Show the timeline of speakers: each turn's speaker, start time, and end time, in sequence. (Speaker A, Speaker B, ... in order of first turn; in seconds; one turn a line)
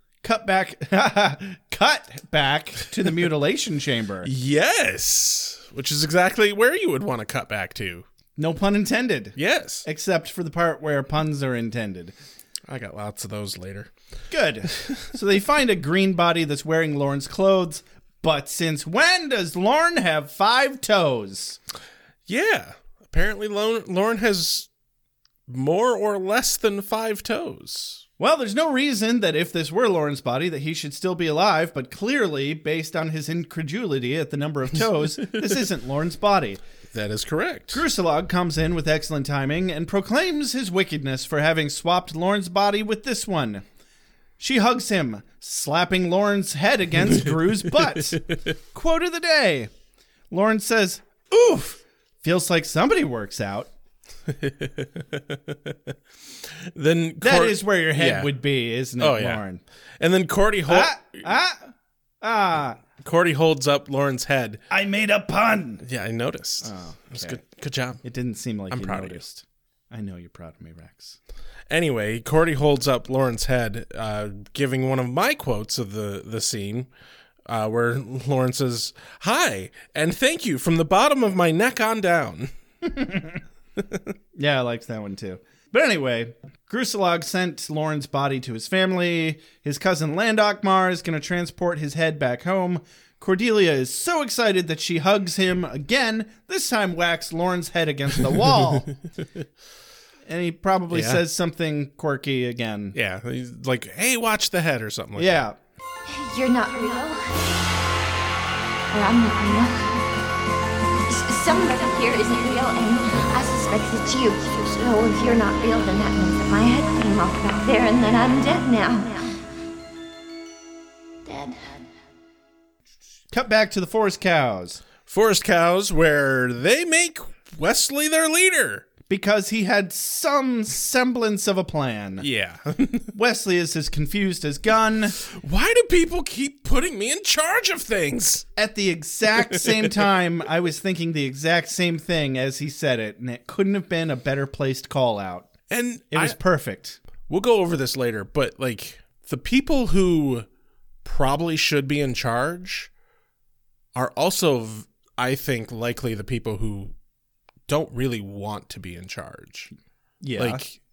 Speaker A: 0.2-4.3
Speaker B: 4.2-8.1
Speaker A: 8.3-12.1
Speaker B: 9.3-9.8
Speaker B: 12.7-13.9
Speaker A: 14.3-21.6
Speaker B: 22.3-24.7
Speaker B: 25.5-28.0
Speaker A: 28.2-36.6
Speaker B: 36.9-37.8
Speaker A: 37.7-43.6
Speaker A: 44.4-49.7
Speaker A: 50.3-53.7
Speaker B: 54.3-55.9
Speaker B: 56.7-58.3
Speaker A: 57.2-59.6
Speaker B: 59.0-59.4
Speaker B: 60.0-61.2
Speaker A: 60.7-62.8
Speaker B: 63.0-64.6
Speaker A: 64.7-65.8
Speaker B: 65.8-68.0
Speaker A: 66.6-67.4
Speaker A: 68.0-71.2
Speaker B: 68.7-69.2
Speaker B: 71.7-76.9
Speaker B: 77.5-82.5
Speaker A: 83.0-83.4
Speaker A: 84.3-98.9
Speaker A: 100.3-103.0
Speaker B: 100.9-101.2
Speaker B: 102.9-105.4
Speaker A: 105.2-105.5
Speaker C: 106.0-107.6
Speaker C: 108.9-110.1
Speaker C: 111.0-119.4
Speaker C: 121.2-121.9
Speaker A: 123.3-124.8
Speaker B: 125.0-128.9
Speaker A: 129.1-132.2
Speaker B: 132.2-133.1
Speaker A: 133.1-135.2
Speaker B: 135.2-138.4
Speaker A: 138.6-145.5
Speaker B: 139.5-140.1
Speaker B: 145.7-146.4
Speaker A: 146.1-147.0
Speaker B: 147.3-150.5
Speaker B: 151.0-152.9
Speaker B: 153.9-156.9
Speaker B: 157.7-159.7
Speaker A: 160.2-160.7
Speaker B: 160.4-160.8